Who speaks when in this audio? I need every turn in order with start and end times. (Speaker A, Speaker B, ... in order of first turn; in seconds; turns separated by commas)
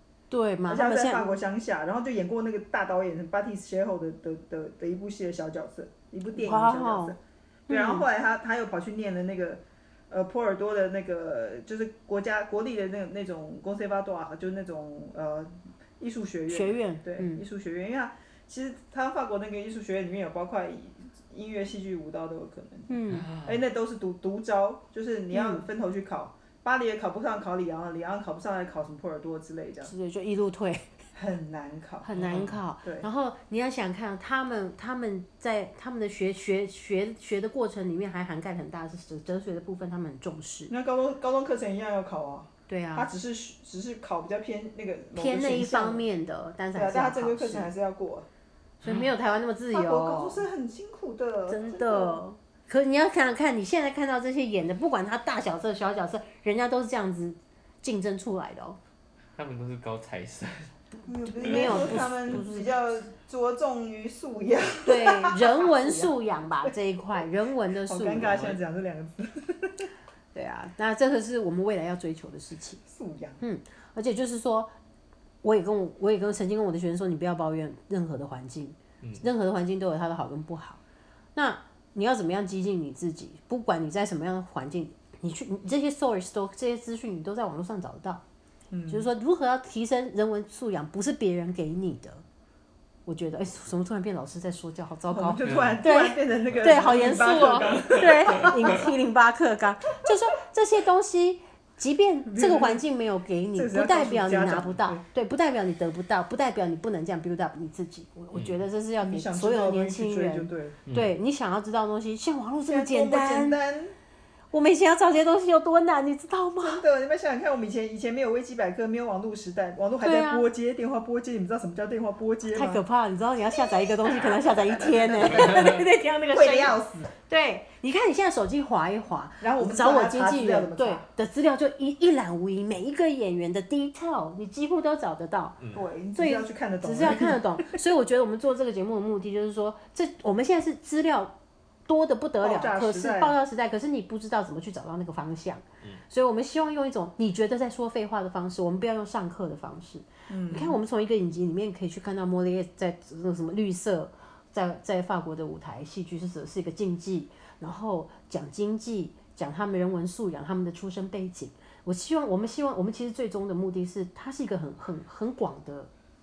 Speaker A: 0.3-1.3, Speaker B: 0.7-29.9, Speaker A: 6.3-7.2, Speaker A: 7.7-8.1, Speaker A: 16.5-17.4, Speaker A: 22.9-23.3, Speaker C: 23.1-23.6, Speaker A: 25.3-25.6, Speaker A: 29.8-30.9, Speaker B: 31.1-33.1, Speaker A: 32.0-40.7, Speaker C: 32.1-32.6, Speaker B: 40.7-46.0, Speaker A: 42.7-43.1, Speaker A: 45.1-47.7, Speaker B: 46.7-48.2, Speaker C: 48.8-49.1, Speaker A: 48.8-50.4, Speaker B: 49.7-52.2, Speaker A: 51.5-58.8, Speaker C: 59.4-60.7, Speaker B: 61.0-66.1, Speaker A: 61.4-62.7, Speaker C: 61.4-62.4, Speaker A: 64.8-68.5, Speaker B: 67.9-69.9, Speaker C: 68.1-68.6, Speaker A: 70.3-72.8, Speaker B: 72.8-73.4, Speaker A: 73.4-74.7, Speaker A: 75.4-80.8, Speaker A: 81.3-88.2, Speaker B: 88.7-89.1, Speaker A: 88.9-92.2, Speaker A: 93.0-113.6, Speaker B: 95.1-98.9, Speaker B: 102.3-102.8, Speaker B: 103.5-105.0, Speaker C: 108.3-108.6, Speaker B: 109.0-110.8, Speaker C: 110.9-111.1, Speaker B: 112.7-114.0, Speaker A: 114.5-116.8, Speaker B: 116.6-122.8, Speaker A: 120.0-120.5, Speaker A: 122.5-135.6, Speaker B: 123.5-125.7, Speaker B: 126.3-127.1, Speaker B: 129.4-131.1, Speaker B: 135.7-137.7, Speaker A: 136.1-141.3, Speaker A: 141.9-165.9, Speaker B: 142.4-143.4, Speaker B: 150.3-150.8